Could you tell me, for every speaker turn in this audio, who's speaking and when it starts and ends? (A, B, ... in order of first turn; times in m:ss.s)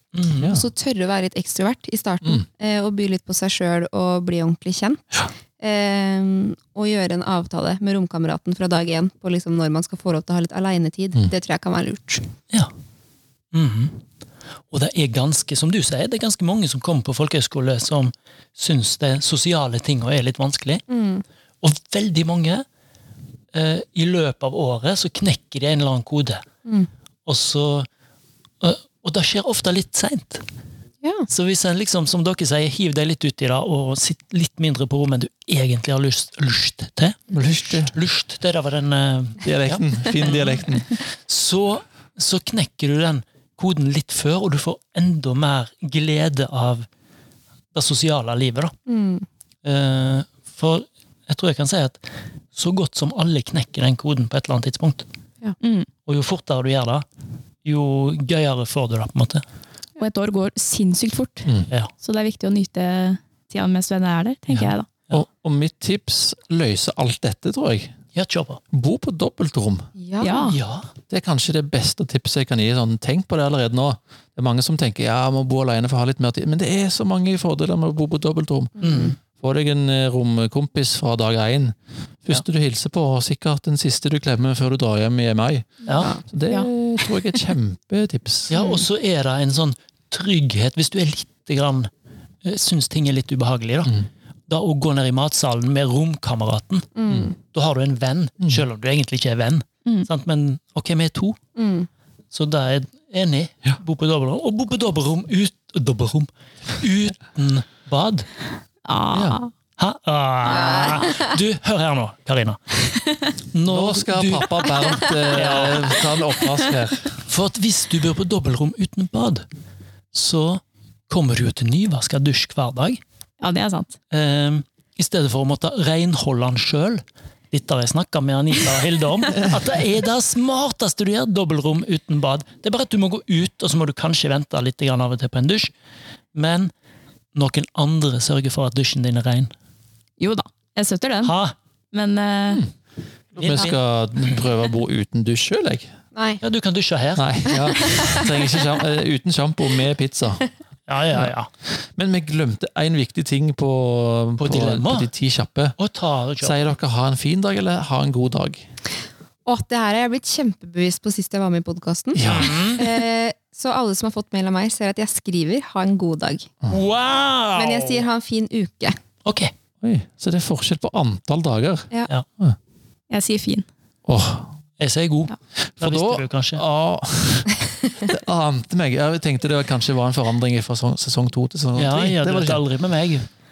0:00.1-0:00.6 A
0:00.4-0:12.2 B
0:13.5-0:14.0 A
0:14.7-0:20.8 A
0:20.9-0:21.2 B
0:21.6-0:22.6 A
0:23.5-0:26.4 A
0:27.2-0:27.9 A
0:28.6-0:30.4 A
0:31.0-0:31.3 B
0:31.3-0:46.9 A
0:37.3-0:37.9 C
0:39.4-0:41.0 C
0:47.7-0:48.7 A
0:48.9-0:49.2 B
0:49.6-0:55.0 A
0:55.6-0:55.9 D
0:56.0-0:57.0 A
0:57.6-0:59.4 A
1:00.0-1:04.9 D
1:04.6-1:05.2 A
1:04.6-1:07.9 C
1:08.1-1:08.6 A
1:08.7-1:09.9 C
1:10.0-1:10.5 B
1:10.2-1:10.6 D
1:10.4-1:10.9 A
1:11.1-1:28.6 C
1:18.8-1:19.1 B
1:18.8-1:19.2 A
1:25.8-1:26.1 A
1:25.9-1:26.2 B
1:28.5-1:31.9 A
1:28.6-1:28.8 B
1:32.4-1:34.0 A
1:34.5-1:41.4 A
1:36.9-1:37.3 B
1:41.6-1:41.9 B
1:42.3-1:48.3 A
1:48.8-1:49.5 D
1:49.1-1:49.4 C
1:49.8-1:52.6 A
1:50.4-1:51.3 B
1:53.5-1:54.7 A
1:53.6-1:57.1 C
1:54.8-1:55.7 B
1:55.3-1:56.0 A
1:57.3-1:59.4 A
2:00.1-2:03.0 A
2:03.4-2:04.0 D
2:04.1-2:15.7 A
2:16.3-2:16.7 A
2:17.3-2:19.5 A
2:20.2-2:21.3 D
2:21.2-2:21.5 A
2:21.9-2:22.6 D
2:23.3-2:25.9 C
2:23.4-2:24.4 A
2:26.1-2:26.4 B
2:26.4-2:27.9 A
2:27.2-2:30.4 C
2:27.6-2:28.3 B
2:30.9-2:31.5 A
2:31.1-2:35.8 C
2:34.4-2:35.1 A
2:35.8-2:36.6 A
2:36.4-2:38.6 C
2:39.4-2:46.5 B
2:42.1-2:42.6 C
2:42.2-2:42.9 A
2:46.7-2:48.0 A
2:47.6-2:49.0 B
2:49.2-2:49.5 A
2:49.8-2:52.6 C
2:53.1-2:53.6 D
2:54.0-2:54.5 C
2:54.8-2:56.6 A
2:55.6-3:02.6 C
3:01.8-3:03.2 A